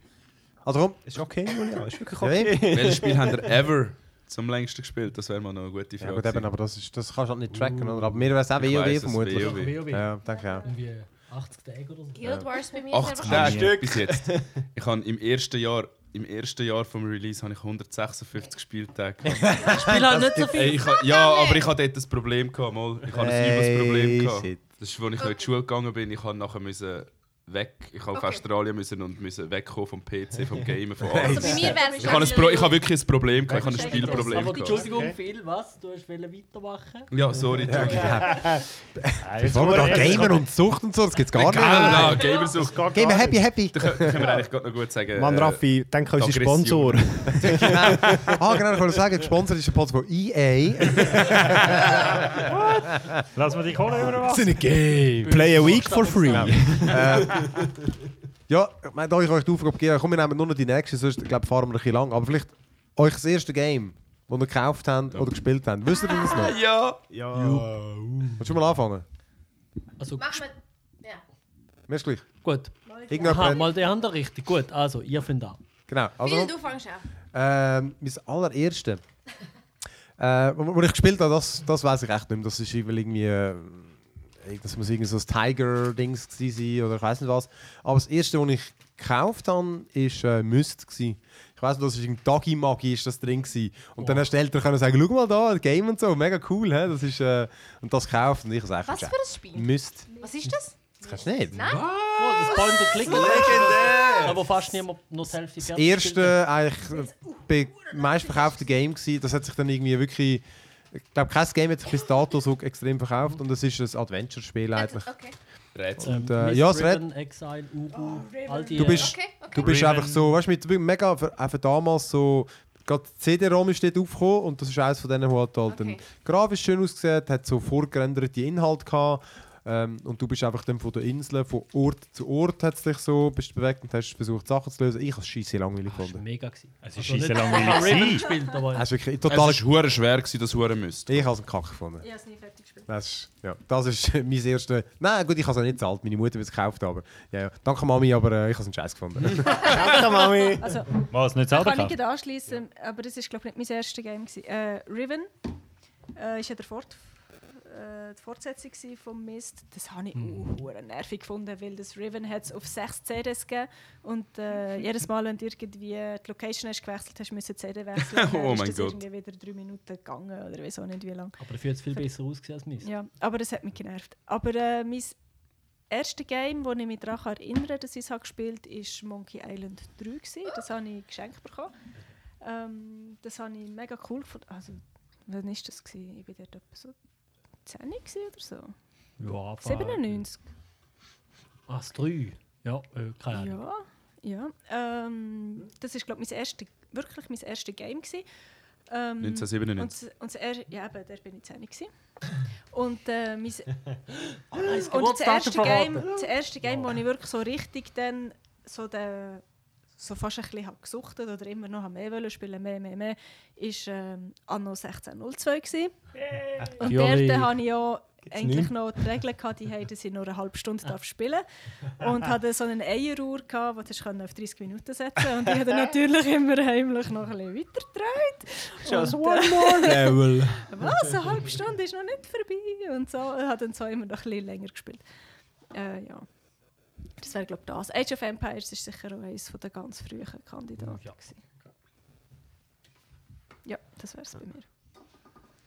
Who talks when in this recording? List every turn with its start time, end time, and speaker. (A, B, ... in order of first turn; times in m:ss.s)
0:00.6-0:01.0 A
0:01.1-0:03.6 B
0:02.2-0:02.6 A
0:02.7-0:06.5 C
0:06.0-0:10.6 A
0:08.6-0:09.9 C
0:09.3-0:10.1 D
0:10.3-0:10.8 E
0:10.6-0:12.3 D
0:12.1-0:13.6 E
0:12.9-0:19.6 C
0:13.2-0:13.8 F
0:13.4-0:14.5 B
0:19.3-0:20.6 A
0:19.7-0:20.7 D
0:20.5-0:34.9 C
0:20.7-0:21.7 E
0:23.1-0:24.6 A
0:25.2-0:25.5 E
0:28.1-0:28.4 E
0:31.0-0:31.7 A
0:31.2-0:32.9 E
0:31.5-0:32.4 B
0:31.8-0:32.5 G
0:33.4-0:35.2 B
0:33.6-0:34.4 G
0:33.9-0:37.1 D
0:37.1-0:38.3 C
0:37.6-0:38.6 B
0:37.7-0:42.3 A
0:39.2-0:40.5 B
0:41.3-0:42.9 C
0:41.5-0:43.5 B
0:42.9-0:44.2 A
0:43.7-0:45.6 C
0:45.2-0:48.5 B
0:46.1-0:47.9 C
0:47.4-0:52.1 A
0:52.5-0:55.0 F
0:54.2-0:55.4 A
0:55.2-0:56.9 D
0:55.3-0:57.7 B
0:56.3-0:57.5 A
0:58.5-1:06.5 A
1:06.2-1:06.6 E
1:06.2-1:07.0 C
1:07.1-1:08.4 B
1:08.4-1:09.0 A
1:10.0-1:10.4 D
1:10.2-1:11.2 E
1:11.9-1:12.2 A
1:12.4-1:15.6 D
1:12.9-1:13.7 G
1:13.1-1:13.6 A
1:15.9-1:16.6 A
1:16.2-1:17.1 E
1:17.3-1:19.0 A
1:20.2-1:40.1 A
1:38.8-1:43.9 E
1:41.0-1:41.8 A
1:41.7-1:44.4 C
1:42.2-1:46.4 D
1:45.6-1:55.1 A
1:54.7-1:55.4 E
1:55.8-1:56.2 C
1:56.0-1:57.0 A
1:56.0-1:59.2 D
1:58.0-1:59.7 E
1:58.8-2:16.2 A
1:59.6-2:00.4 F
2:05.7-2:06.0 E
2:15.9-2:18.9 D
2:16.8-2:18.3 F
2:18.7-2:19.6 A
2:19.3-2:21.3 C
2:21.1-2:22.1 A
2:22.0-2:22.9 G
2:22.9-2:29.8 A
2:29.5-2:30.8 B
2:30.0-2:35.3 G
2:31.1-2:32.0 F
2:36.2-2:37.0 G
2:37.6-2:51.4 G
2:40.2-2:40.6 D
2:48.0-2:49.0 C
2:51.4-2:52.9 D
2:52.8-2:55.2 G
2:55.9-3:01.7 G
3:02.4-3:07.0 G
3:07.6-3:08.7 G
3:09.2-3:10.2 D
3:09.6-3:10.4 G
3:11.7-3:13.6 D
3:13.3-3:18.3 G
3:18.9-3:21.9 G
3:19.2-3:19.9 C
3:22.7-3:23.7 G
3:24.5-3:26.3 D
3:24.7-3:29.4 G
3:30.0-3:35.9 G
3:36.3-3:36.8 F
3:36.8-3:41.4 G
3:36.8-3:37.6 D
3:38.3-3:39.0 B
3:42.0-3:55.0 G
3:48.8-3:51.1 B
3:55.7-3:56.3 G
3:57.2-4:01.4 G
4:00.8-4:01.1 D
4:03.6-4:04.6 G